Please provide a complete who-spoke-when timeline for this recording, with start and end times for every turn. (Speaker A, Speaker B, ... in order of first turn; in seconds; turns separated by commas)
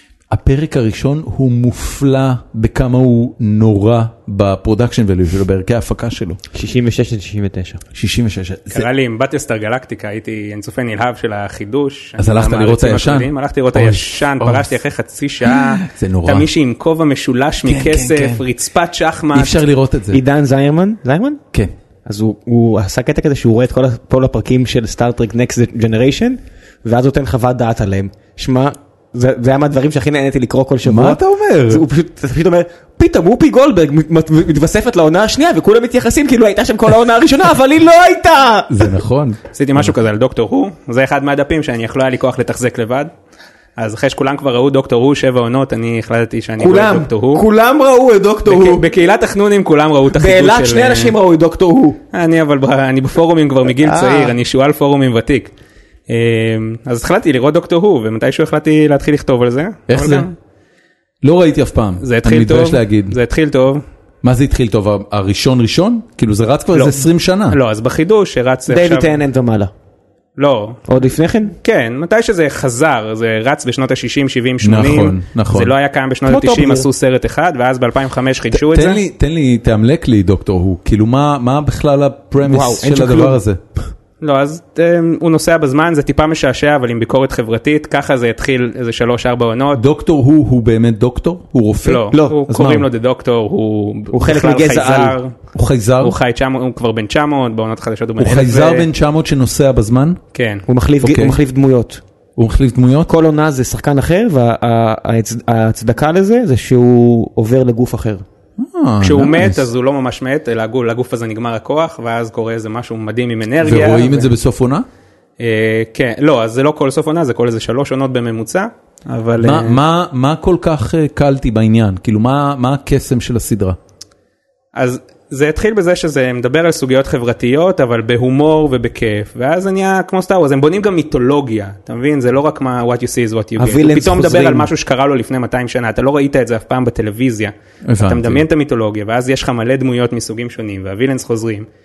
Speaker A: 0.3-6.4, Speaker B: 6.5-7.8, Speaker A: 7.9-8.9, Speaker C: 8.7-19.6, Speaker A: 12.2-14.7, Speaker A: 15.4-16.5, Speaker A: 17.6-18.4, Speaker A: 19.3-20.2, Speaker B: 20.1-21.4, Speaker B: 22.1-38.9, Speaker A: 30.8-31.8, Speaker A: 38.7-39.9, Speaker C: 39.5-43.1, Speaker C: 43.8-47.5, Speaker B: 46.6-48.9, Speaker C: 48.5-51.1, Speaker B: 50.1-52.0, Speaker C: 52.1-55.5, Speaker B: 53.8-54.3, Speaker C: 56.1-60.3, Speaker A: 59.9-60.3, Speaker A: 61.2-63.1, Speaker C: 62.0-63.8, Speaker A: 64.2-67.6, Speaker C: 66.7-69.1, Speaker B: 68.7-69.7, Speaker C: 70.4-70.9, Speaker B: 70.9-71.5, Speaker C: 71.6-79.0, Speaker A: 74.6-75.7, Speaker B: 76.2-76.9, Speaker A: 78.5-83.6, Speaker B: 82.4-83.4, Speaker C: 84.2-89.8, Speaker A: 89.7-92.9, Speaker C: 91.8-95.3, Speaker B: 92.1-92.4, Speaker B: 94.1-95.2, Speaker A: 95.5-96.2, Speaker C: 96.0-98.9, Speaker A: 98.2-100.2, Speaker C: 100.3-100.6, Speaker B: 100.7-102.0, Speaker A: 101.0-101.4, Speaker A: 102.3-103.1, Speaker B: 103.1-108.2, Speaker A: 108.6-109.7, Speaker C: 109.0-114.3, Speaker A: 113.6-114.8, Speaker C: 115.4-119.8, Speaker A: 119.4-123.8, Speaker C: 124.7-141.7, Speaker B: 133.6-134.7, Speaker A: 137.8-138.4